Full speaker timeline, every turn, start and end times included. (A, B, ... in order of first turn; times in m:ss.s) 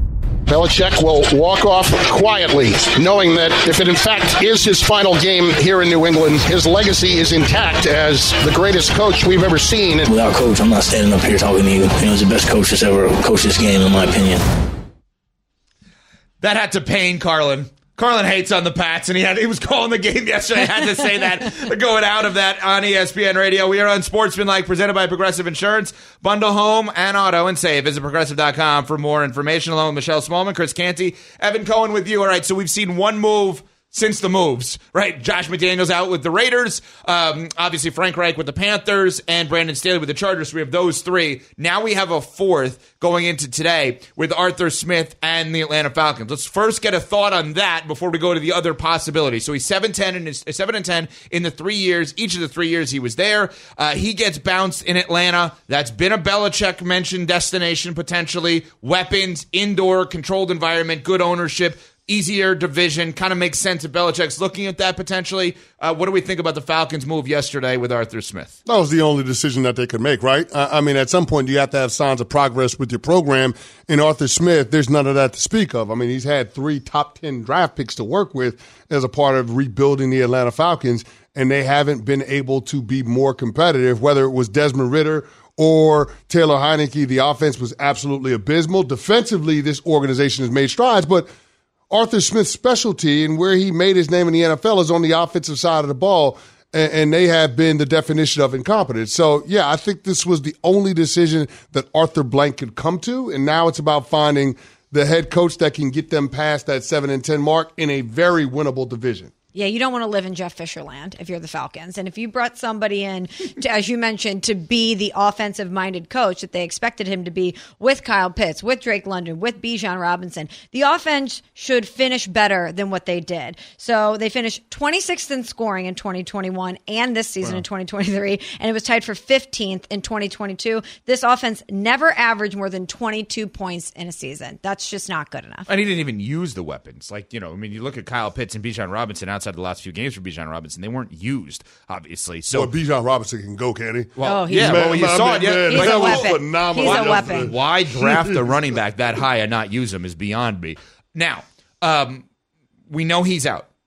0:00.5-0:10.1 A
0:10.1-0:14.4 B
0:16.4-1:08.6 C
1:08.7-1:31.3 D
1:31.9-1:49.3 D
1:49.5-2:15.7 E
2:15.7-2:22.7 C
2:22.5-2:28.6 D
2:24.2-2:32.2 C
2:24.2-2:25.2 E
2:25.7-2:27.5 E
2:32.9-2:33.7 C